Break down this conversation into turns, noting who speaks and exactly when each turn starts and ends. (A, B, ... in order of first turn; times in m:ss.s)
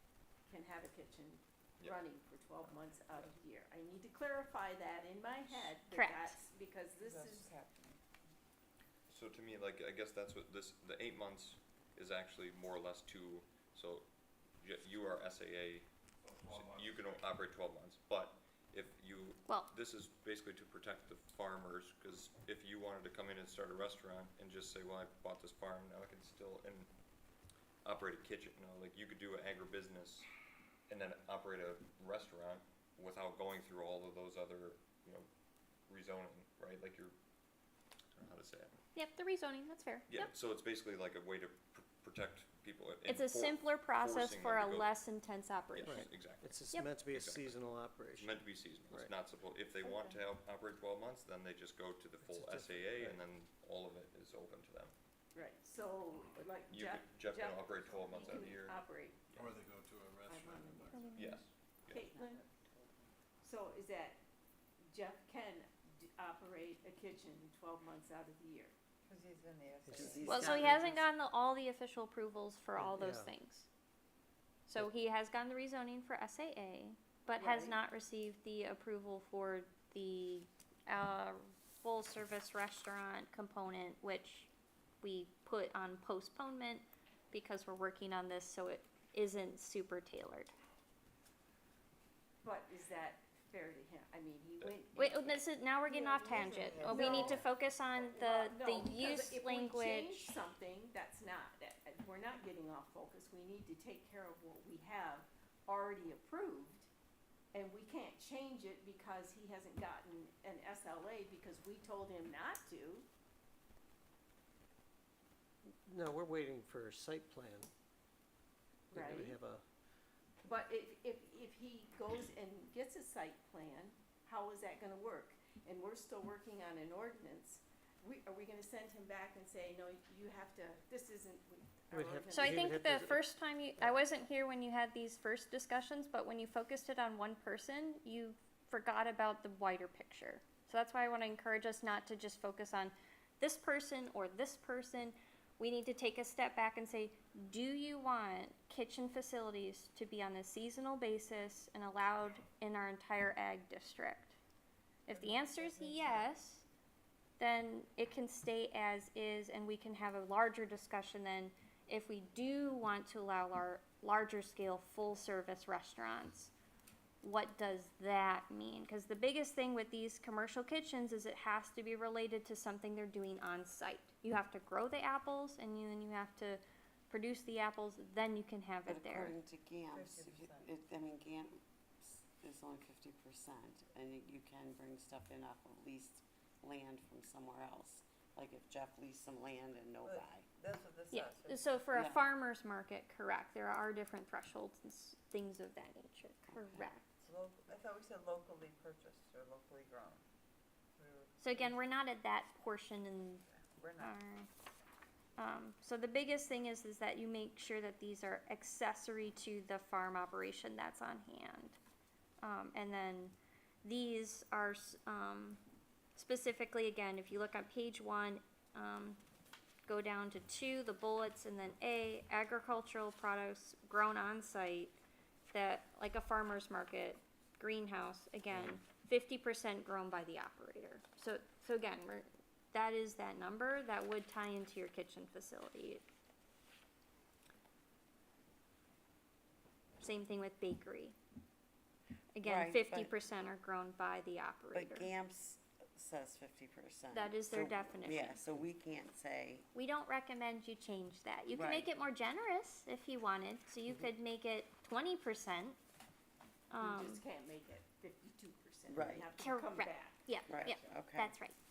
0:00.5-0:07.5 A
0:02.6-0:03.3 B
0:05.9-0:06.4 C
0:07.0-0:08.0 D
0:09.1-0:14.1 B
0:14.6-0:15.9 B
0:16.2-0:17.3 E
0:16.4-0:26.9 B
0:27.8-0:30.3 B
0:30.9-0:35.3 B
0:35.9-0:37.2 B
0:38.2-0:38.8 B
0:39.0-0:40.2 C
0:40.1-0:44.9 B
0:43.1-0:46.1 C
0:45.7-0:47.6 B
0:45.8-0:49.1 F
0:48.2-0:54.9 B
0:49.8-0:50.2 D
0:52.2-0:53.2 F
0:55.3-0:59.2 A
0:56.7-0:59.5 B
0:59.4-1:01.2 E
1:00.3-1:01.2 A
1:00.9-1:01.4 C
1:01.2-1:02.1 B
1:01.9-1:02.4 A
1:01.9-1:03.1 D
1:03.4-1:04.2 A
1:04.9-1:08.8 A
1:09.1-1:10.8 D
1:09.9-1:11.0 G
1:10.3-1:13.7 C
1:12.8-1:13.3 F
1:14.7-1:24.5 C
1:17.4-1:17.8 A
1:25.0-1:30.5 C
1:32.4-1:35.4 A
1:35.0-1:40.3 C
1:35.9-1:37.4 D
1:36.8-1:46.9 A
1:47.5-1:53.1 A
1:55.8-1:57.7 F
1:58.9-1:59.4 A
1:58.9-1:59.6 F
2:00.4-2:13.1 A
2:11.9-2:13.2 F
2:12.3-2:34.4 C
2:35.1-2:36.6 C
2:35.1-2:36.3 D
2:37.4-2:46.5 C
2:47.2-2:59.4 C
2:58.9-3:10.5 G
2:59.9-3:00.7 D
3:10.0-3:11.7 D
3:11.1-3:17.2 C
3:11.9-3:12.3 G
3:17.2-3:20.2 D
3:21.0-3:21.8 D
3:21.4-3:23.4 C
3:23.5-3:24.2 D
3:24.0-3:24.5 C
3:25.4-3:31.8 C
3:32.4-3:35.6 C
3:36.2-3:39.2 C
3:39.9-3:44.9 C
3:45.5-3:56.0 C
4:00.0-4:01.2 C
4:02.3-4:05.1 C
4:02.4-4:03.2 G
4:04.7-4:09.7 G
4:07.1-4:08.4 C
4:09.7-4:15.8 C
4:11.5-4:12.0 G
4:16.7-4:17.2 C
4:16.8-4:20.3 A
4:18.9-4:19.3 G
4:19.4-4:21.6 C
4:20.5-4:21.4 G